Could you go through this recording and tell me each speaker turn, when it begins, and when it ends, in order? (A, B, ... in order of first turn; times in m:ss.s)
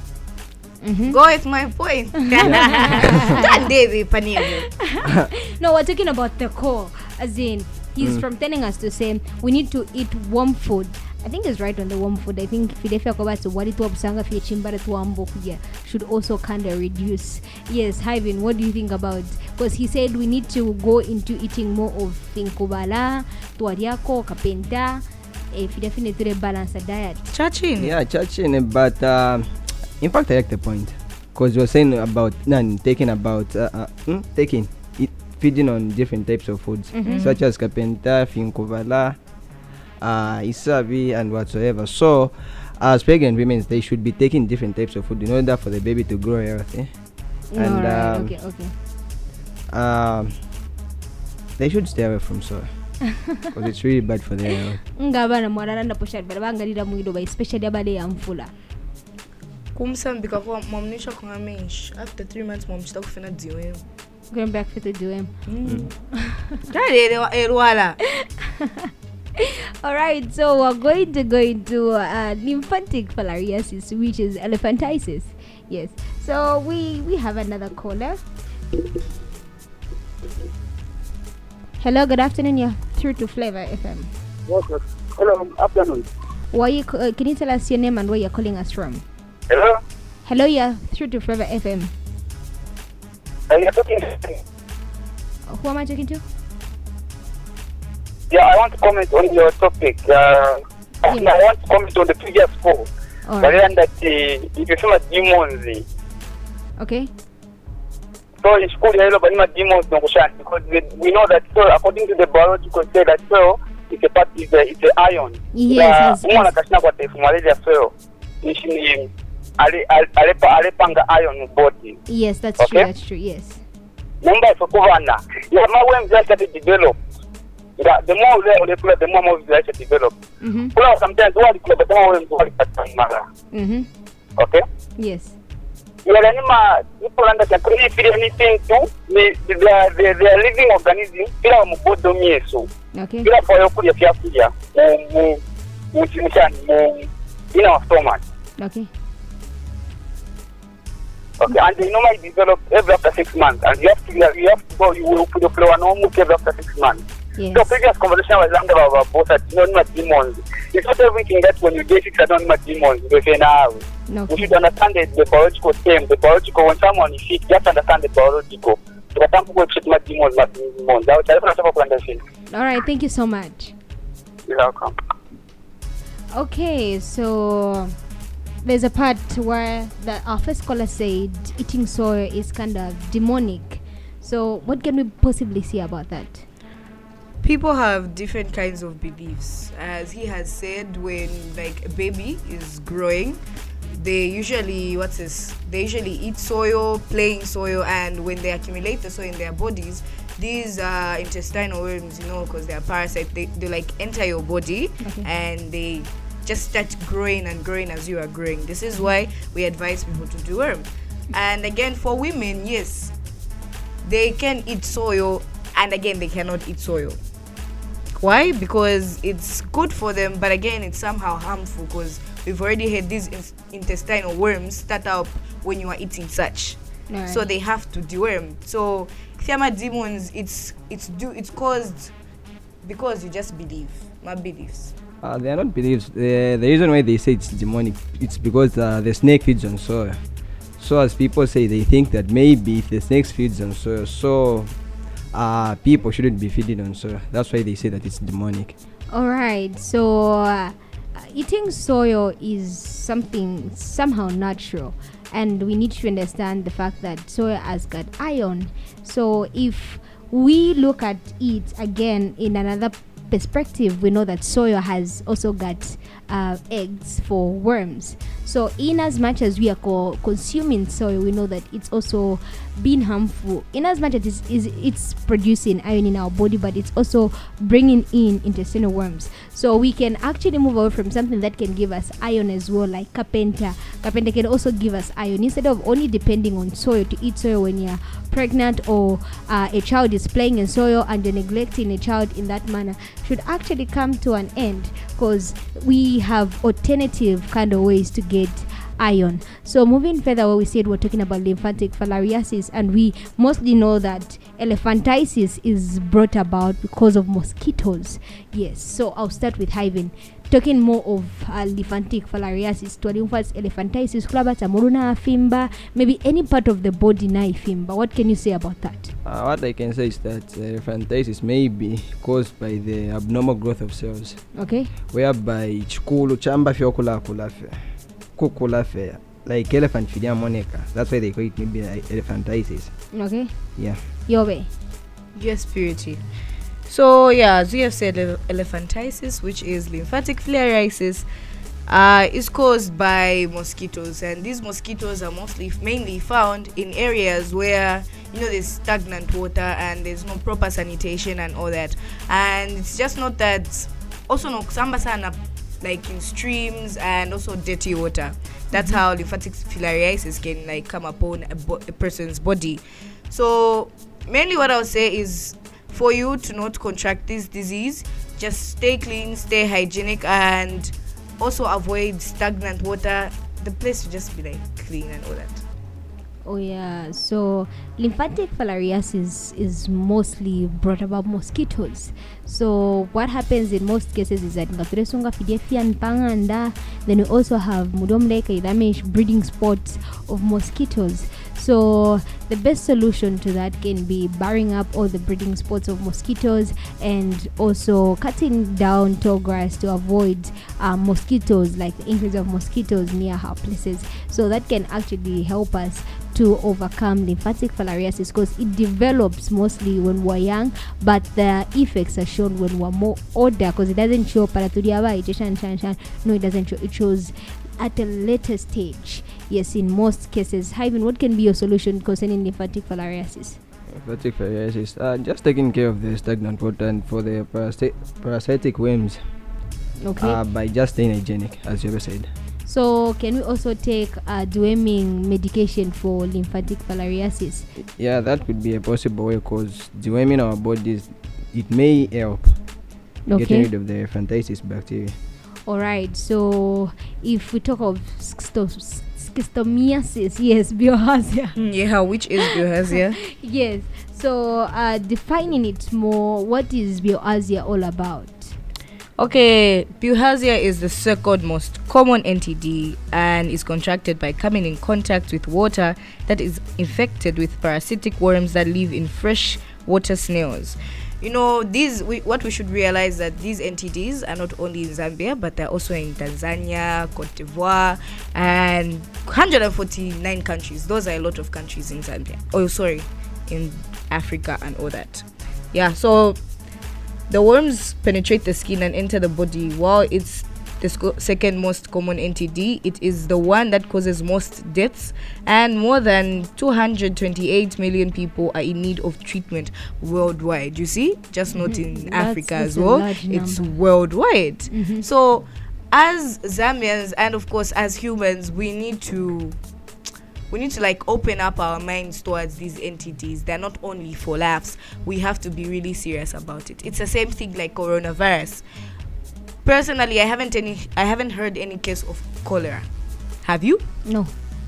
0:00.8-0:01.2 A
0:01.1-0:04.7 B
0:02.4-0:03.3 C
0:02.5-0:03.5 A
0:04.7-0:27.3 A
0:27.3-0:27.9 B
0:27.8-0:29.5 C
0:30.0-0:39.2 C
0:36.9-0:37.3 A
0:37.0-0:37.4 B
0:40.0-0:46.9 C
0:47.5-0:48.7 A
0:47.5-0:48.3 C
0:49.7-0:50.4 C
0:51.6-0:54.8 C
0:55.0-0:58.5 A
0:59.7-1:03.8 B
1:04.3-1:05.3 A
1:05.5-1:05.9 B
1:06.1-1:06.6 A
1:06.7-1:08.0 B
1:08.1-1:18.2 A
1:21.8-1:24.1 A
1:24.5-1:26.0 D
1:26.5-1:29.0 A
1:29.5-1:29.8 D
1:30.2-1:31.9 A
1:33.5-1:34.4 D
1:35.5-1:36.2 A
1:38.3-1:42.9 D
1:41.1-1:41.3 A
1:43.3-1:43.6 A
1:43.4-1:45.8 D
1:46.8-1:47.1 A
1:48.4-1:59.1 D
1:55.5-1:56.5 A
1:59.6-2:02.0 D
2:02.1-2:03.6 A
2:02.6-2:02.9 D
2:04.2-2:07.0 D
2:07.8-2:10.1 D
2:10.4-2:10.7 A
2:10.7-2:13.2 D
2:13.5-2:13.9 A
2:14.4-2:14.6 D
2:15.0-2:15.3 A
2:16.0-2:22.7 D
2:22.9-2:23.3 A
2:23.2-2:25.4 D
2:25.9-2:28.2 D
2:28.6-2:28.9 A
2:31.4-2:37.0 D
2:37.4-2:37.7 A
2:37.5-2:52.2 D
2:44.1-2:44.5 A
2:52.5-2:53.7 A
2:54.5-2:54.9 D
2:56.3-2:58.0 A
2:58.6-3:06.4 A
3:07.4-3:13.4 B
3:13.9-3:33.1 B
3:25.0-3:25.3 A
3:34.0-3:37.2 B
3:38.2-3:52.1 B
3:47.1-3:47.4 A
3:52.8-3:54.9 B
3:55.2-4:00.2 C
4:00.8-4:04.7 C
4:05.3-4:08.7 C
4:09.1-5:19.1 A
5:19.2-5:24.5 C
5:24.5-5:24.9 A
5:25.1-5:27.8 C
5:28.4-5:33.1 C
5:33.1-5:33.5 A
5:34.2-5:34.7 A
5:35.3-5:36.2 B
5:36.9-5:41.2 B
5:41.9-6:15.6 B
5:58.7-5:59.0 A
6:16.4-7:03.6 A
7:03.9-7:09.2 C
7:10.0-7:10.4 A
7:10.2-7:12.3 C
7:12.6-7:17.7 A
7:17.8-7:22.6 C
7:23.2-7:23.7 A
7:23.3-7:25.2 C
7:25.6-7:31.6 A
7:31.6-7:33.2 B
7:33.3-7:38.5 A
7:39.2-8:06.4 B
8:07.3-8:29.6 B
8:21.6-8:23.7 A
8:24.7-8:25.0 A
8:30.5-8:38.6 B
8:39.6-8:42.8 B
8:43.4-8:43.8 B
8:44.0-8:44.3 A